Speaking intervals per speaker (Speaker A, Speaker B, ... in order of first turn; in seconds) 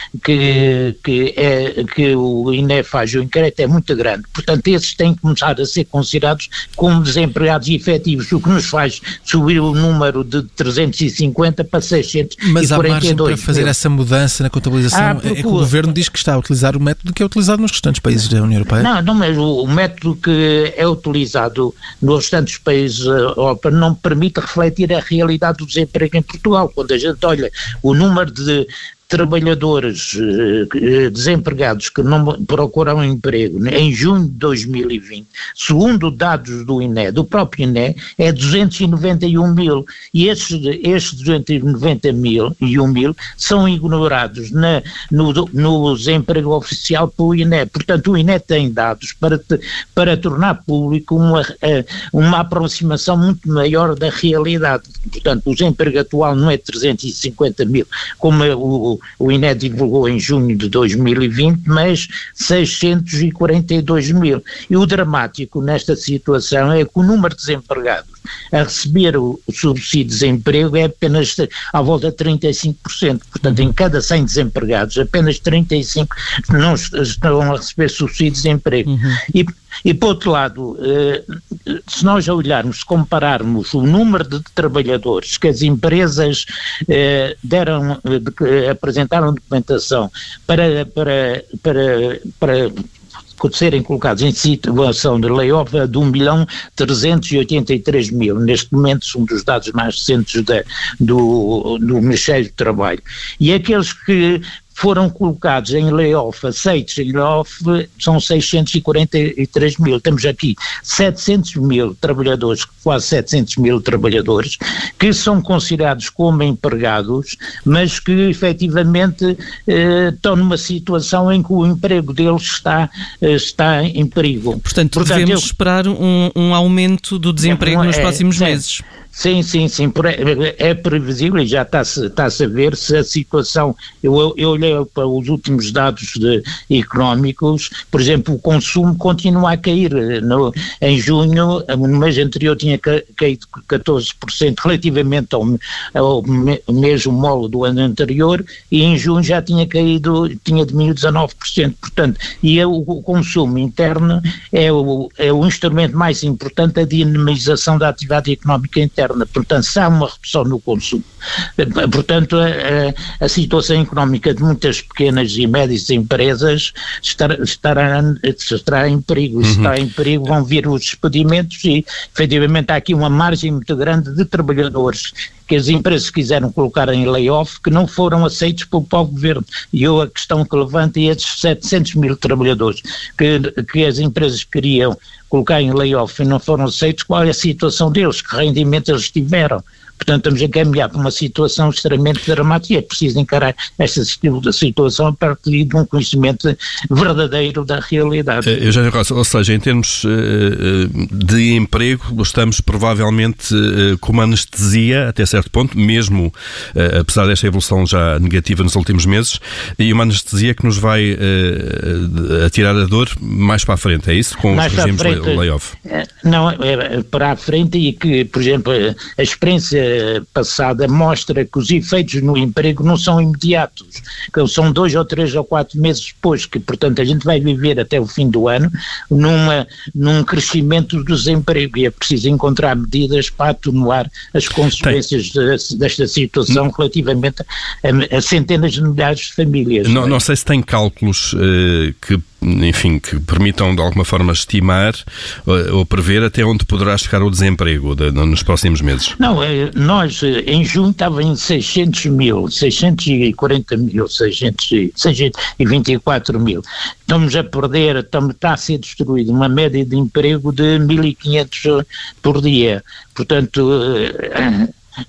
Speaker A: 0.2-13.7, 14.9-15.9, 18.8-92.7, 93.4-125.5, 127.4-161.0, 161.6-198.8, 214.5-240.2, 249.2-264.7
Speaker B: 12.4-18.9
Speaker C: 78.9-79.2, 124.6-128.8
Speaker D: 169.4-169.7, 198.4-215.7, 239.8-249.1